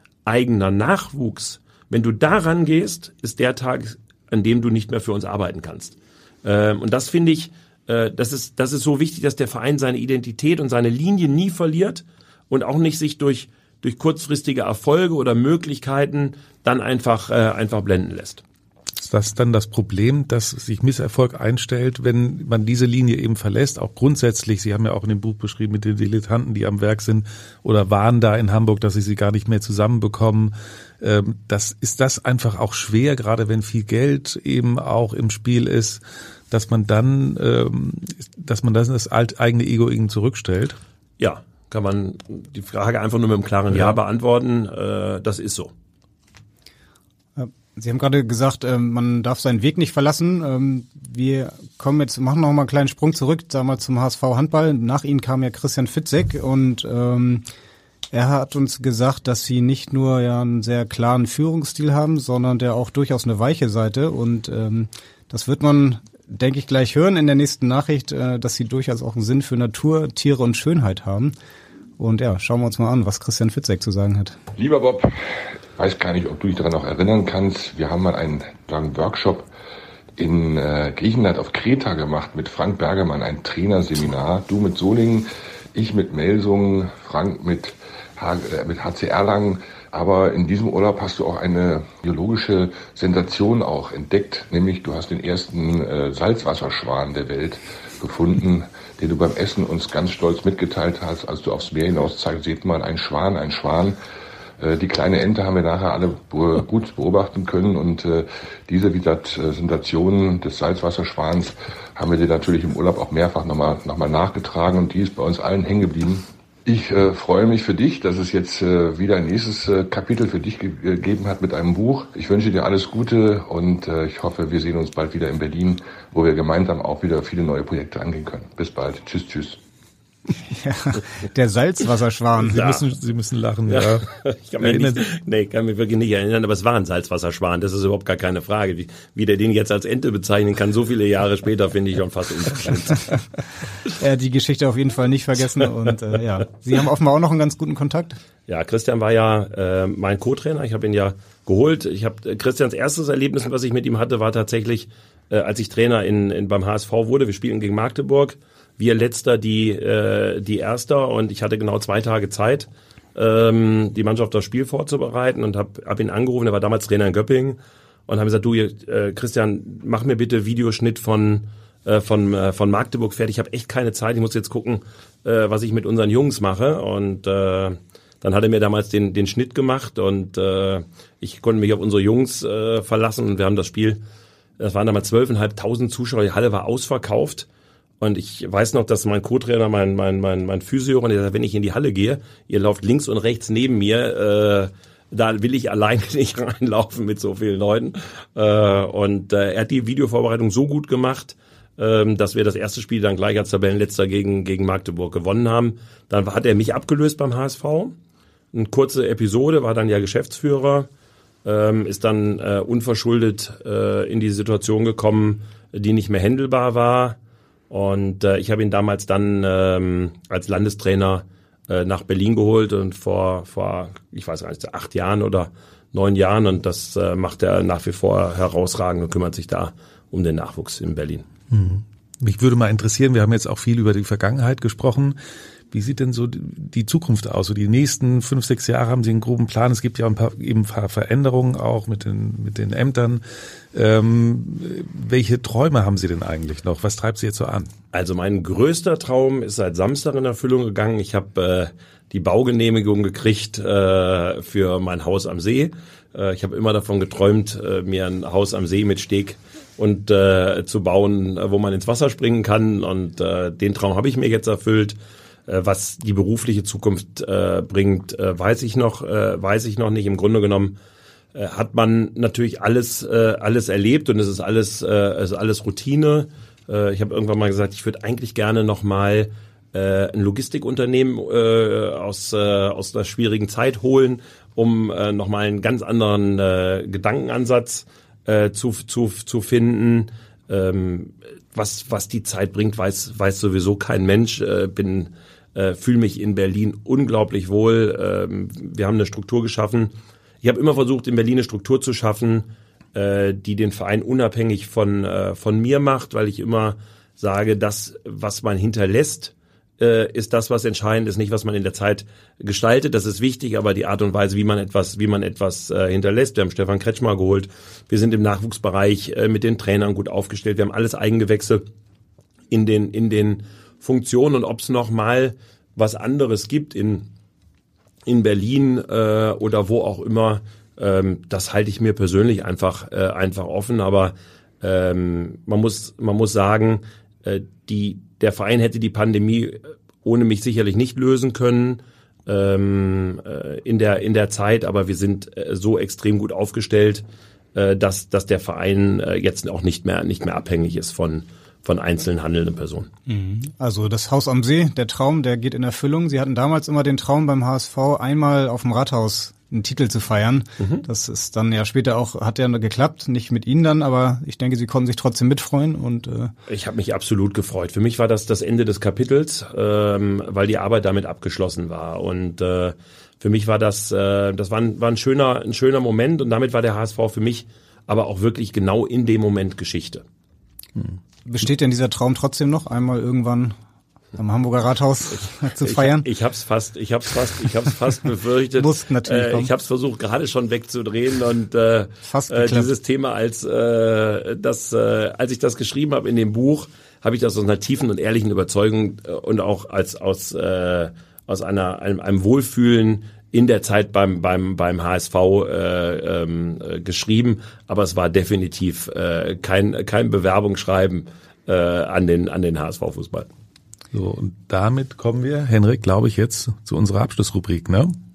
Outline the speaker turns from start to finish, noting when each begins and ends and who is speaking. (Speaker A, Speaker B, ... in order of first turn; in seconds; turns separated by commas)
Speaker A: 0.2-18.4, Speaker B: 18.9-40.8, Speaker A: 41.2-45.7, Speaker C: 47.4-57.4, Speaker C: 58.1-71.3, Speaker C: 72.0-74.4, Speaker D: 74.5-79.5, Speaker D: 80.2-104.0, Speaker D: 104.6-129.6, Speaker C: 130.5-132.6, Speaker B: 132.4-134.1, Speaker A: 132.5-132.8, Speaker A: 133.7-143.1, Speaker B: 134.6-135.1, Speaker C: 144.0-148.2, Speaker A: 148.5-184.0, Speaker A: 184.6-187.4, Speaker A: 188.0-207.9, Speaker A: 208.5-210.9, Speaker A: 211.4-217.2, Speaker A: 217.7-231.3, Speaker B: 231.5-235.2, Speaker B: 235.7-247.7, Speaker A: 247.9-270.7, Speaker A: 271.3-321.6, Speaker A: 322.5-327.1, Speaker A: 328.1-347.0, Speaker A: 347.5-352.9, Speaker C: 353.1-366.3, Speaker A: 360.6-360.8, Speaker A: 366.5-380.0, Speaker C: 381.2-383.5, Speaker C: 384.2-386.1, Speaker A: 385.6-413.3, Speaker C: 388.6-389.5, Speaker C: 392.1-392.7, Speaker B: 413.9-417.9